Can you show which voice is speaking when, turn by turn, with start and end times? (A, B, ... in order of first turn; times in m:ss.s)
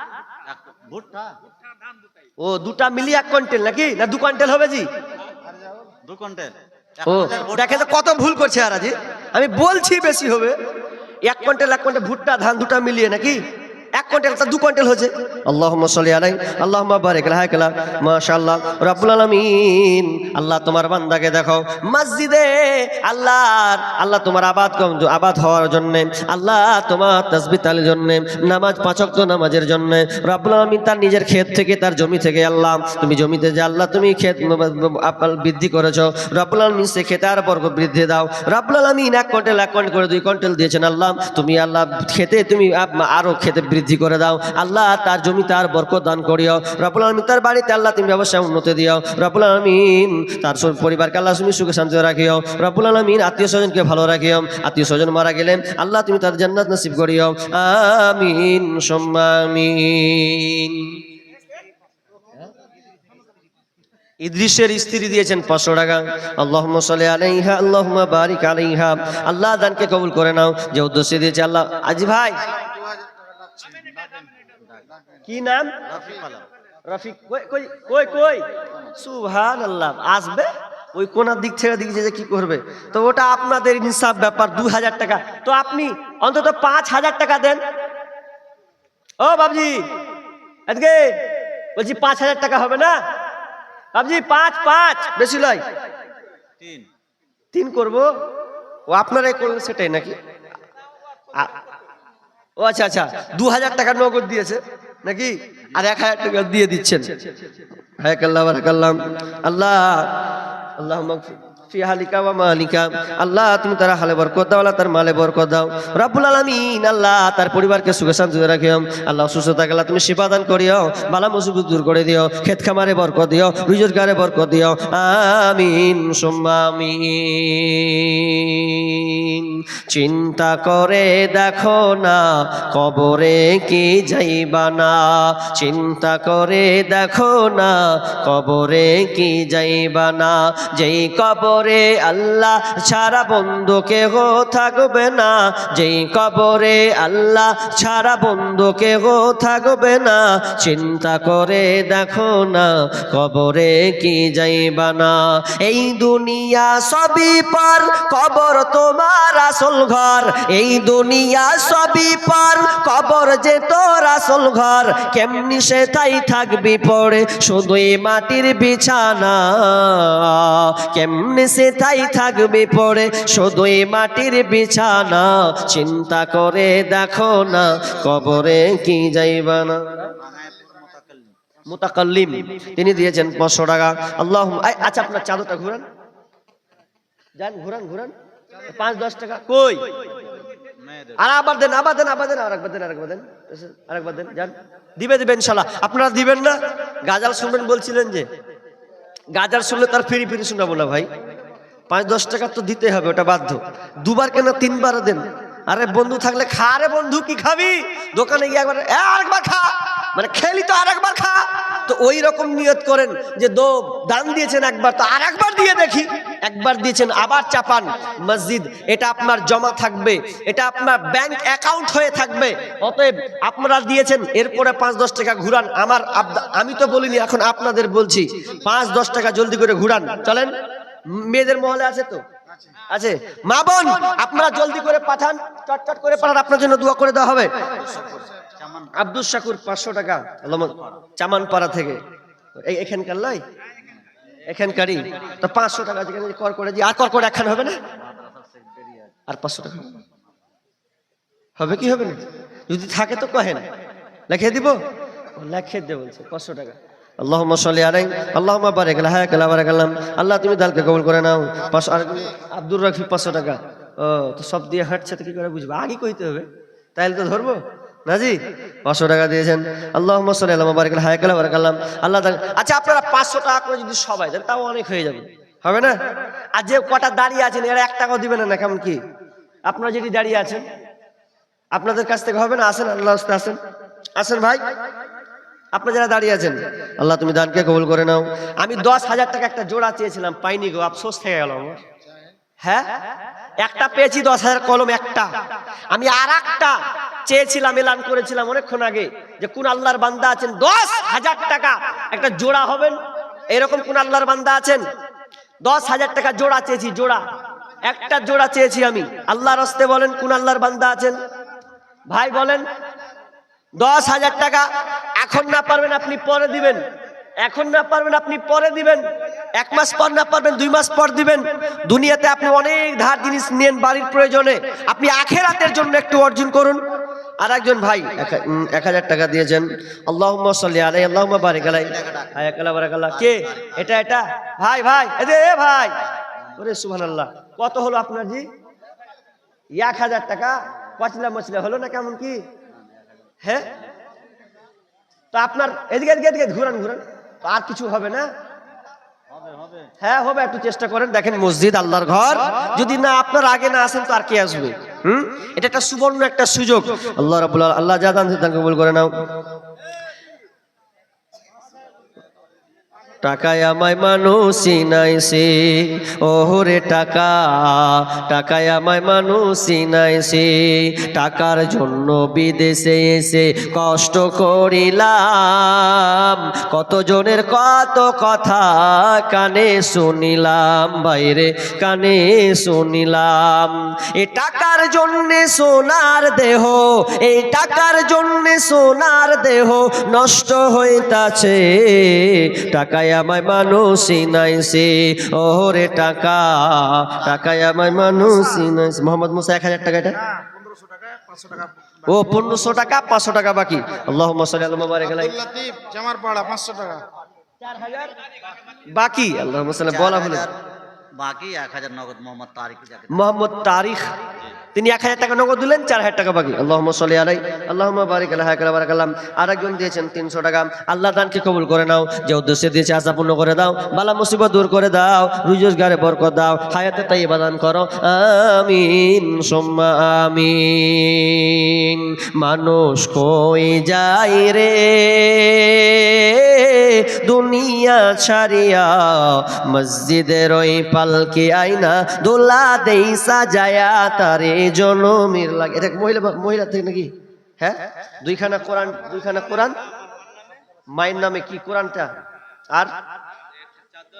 0:00.4-0:01.4 A
0:02.4-0:04.9 B
0:06.0-0:07.7 A
0:07.0-0:10.6 B
0:11.2-0:13.4 B
0:14.0-1:01.0 B
1:04.2-1:12.5 B
1:13.6-1:14.2 C
1:15.3-1:15.8 B
1:15.8-1:16.5 A
1:16.8-1:27.6 B
1:29.2-1:29.9 B
1:30.7-1:33.0 B
1:33.9-1:35.6 B
1:36.6-1:36.9 A
1:37.5-1:38.1 B
1:38.9-1:40.2 B
1:41.3-1:41.7 B
1:42.6-1:47.3 B
1:48.0-3:00.1 B
3:00.2-3:01.3 A
3:01.6-3:05.8 B
3:07.4-3:08.1 B
3:08.6-3:09.8 B
3:10.7-3:11.2 A
3:11.2-3:18.3 B
3:19.3-3:21.1 B
3:21.9-3:50.5 B
3:51.1-3:52.2 B
3:52.9-3:57.8 B
3:57.8-3:58.9 A
3:58.9-4:02.0 B
4:02.6-4:03.4 B
4:04.5-4:07.8 B
4:07.9-4:09.1 A
4:09.3-4:10.0 B
4:11.6-4:13.6 B
4:14.3-4:14.8 B
4:15.3-4:36.0 B
4:36.5-4:39.0 B
4:39.7-4:40.6 B
4:41.7-4:43.6 B
4:44.2-4:44.6 B
4:45.7-4:51.8 B
4:52.6-4:52.9 B
4:53.6-4:55.3 B
4:55.9-5:03.0 B
5:03.5-5:04.8 B
5:05.6-5:07.2 B
5:07.8-5:11.2 B
5:12.1-5:12.6 B
5:13.8-5:16.8 B
5:17.4-5:19.0 B
5:19.6-5:26.8 B
5:27.4-5:36.0 B
5:32.0-5:32.4 A
5:36.6-5:38.5 B
5:39.7-5:42.4 B
5:42.7-5:43.1 A
5:43.4-5:43.7 B
5:45.3-5:48.3 B
5:49.3-5:49.9 A
5:50.0-5:59.1 B
6:03.2-6:40.2 B
6:41.0-6:41.7 C
6:42.1-6:45.5 B
6:45.5-6:47.0 C
6:47.6-6:48.2 B
6:48.9-6:50.5 B
6:49.9-6:50.5 A
6:51.2-6:53.2 A
6:53.1-6:54.1 B
6:54.7-7:29.8 B
7:30.9-7:32.1 B